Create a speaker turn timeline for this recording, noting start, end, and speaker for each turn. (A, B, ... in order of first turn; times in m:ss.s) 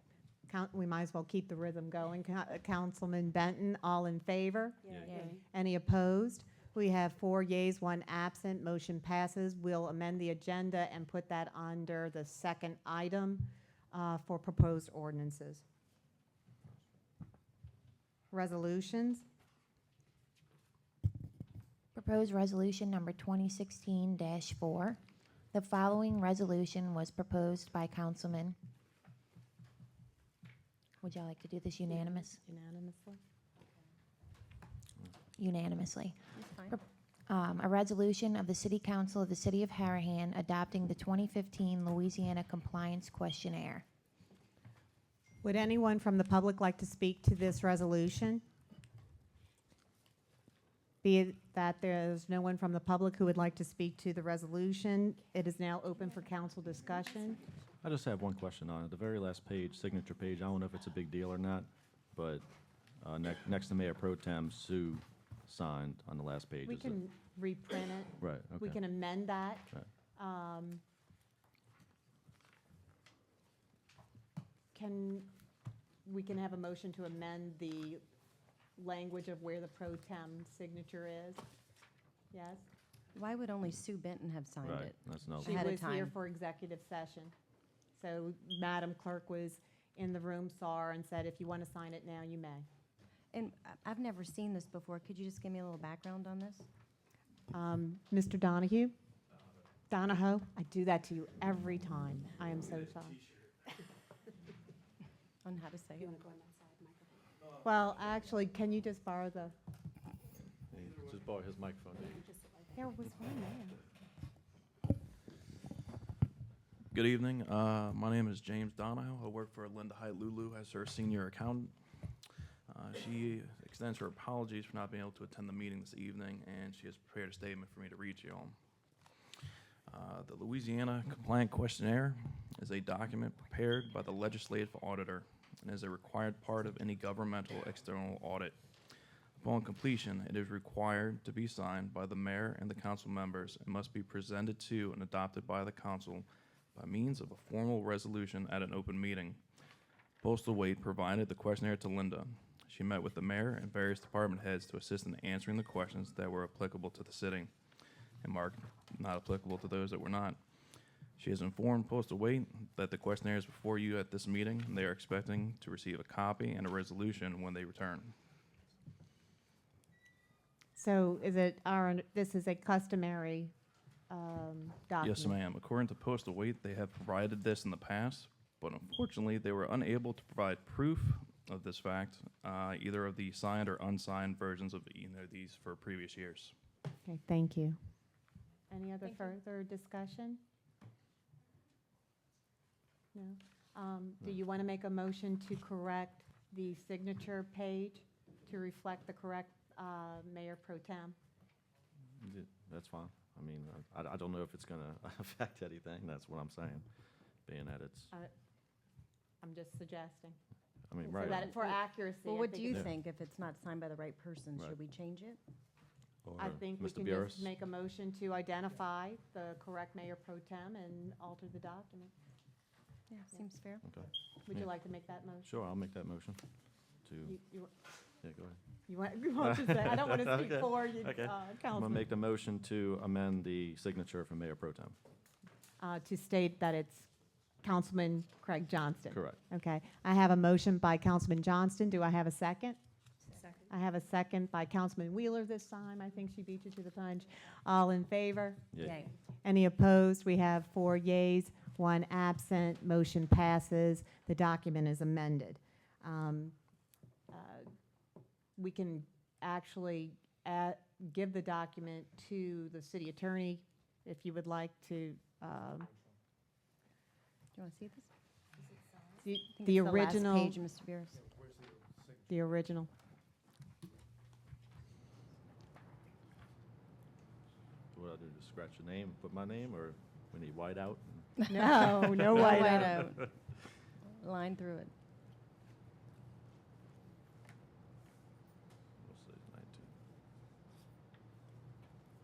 0:00.5-0:15.6 A
0:04.9-0:05.2 B
0:18.3-0:19.2 A
0:22.0-0:25.0 C
0:25.5-0:28.6 C
0:31.0-0:32.4 C
0:31.9-0:33.2 A
0:35.4-0:43.8 C
0:36.4-0:36.8 D
0:45.4-0:48.4 A
0:51.0-0:57.4 A
0:57.8-1:02.5 B
1:03.0-1:07.0 B
1:06.6-1:10.8 A
1:08.2-1:08.8 B
1:14.7-1:15.3 A
1:16.0-1:18.0 A
1:18.8-1:21.4 A
1:22.3-1:22.7 A
1:23.2-1:26.1 D
1:24.6-1:25.6 B
1:25.4-1:27.3 A
1:28.0-1:32.7 A
1:33.3-1:36.7 D
1:37.5-1:39.0 A
1:39.9-1:43.2 A
1:45.4-1:46.3 D
1:47.6-1:49.6 A
1:50.7-1:52.2 B
1:52.8-1:53.8 A
1:56.9-2:01.8 E
2:02.7-2:08.6 E
2:09.9-2:18.6 E
2:19.4-2:29.4 E
2:30.2-2:37.5 E
2:38.2-2:40.4 E
2:41.2-2:48.2 E
2:50.8-2:53.5 A
2:54.1-2:55.4 A
2:55.0-3:06.5 E
3:07.0-3:07.8 A
3:08.7-3:10.4 A
3:13.1-3:21.2 A
3:22.2-3:26.9 B
3:27.5-3:28.1 B
3:29.4-3:30.4 A
3:30.9-3:31.5 B
3:31.1-3:32.9 A
3:31.2-3:35.4 D
3:36.2-3:37.5 B
3:36.4-3:42.1 A
3:43.1-3:43.9 D
3:43.8-3:44.7 B
3:44.5-3:45.5 A
3:45.4-3:46.4 B
3:47.1-3:47.4 B
3:47.2-3:47.7 A
3:48.2-3:48.6 B
3:48.9-3:52.1 A
3:49.4-3:55.0 B
3:55.8-3:57.1 A
3:57.6-4:02.8 A
3:59.1-3:59.4 B
4:03.7-4:16.6 A
4:08.7-4:09.0 B
4:17.3-4:17.7 A
4:18.6-4:25.9 A
4:27.6-4:28.1 D
4:29.2-4:30.6 A
4:29.6-4:31.3 D
4:32.3-4:32.9 A
4:37.9-4:43.2 B
4:41.5-4:43.0 A
4:42.3-4:43.3 D
4:44.2-4:44.9 D
4:49.0-4:49.9 B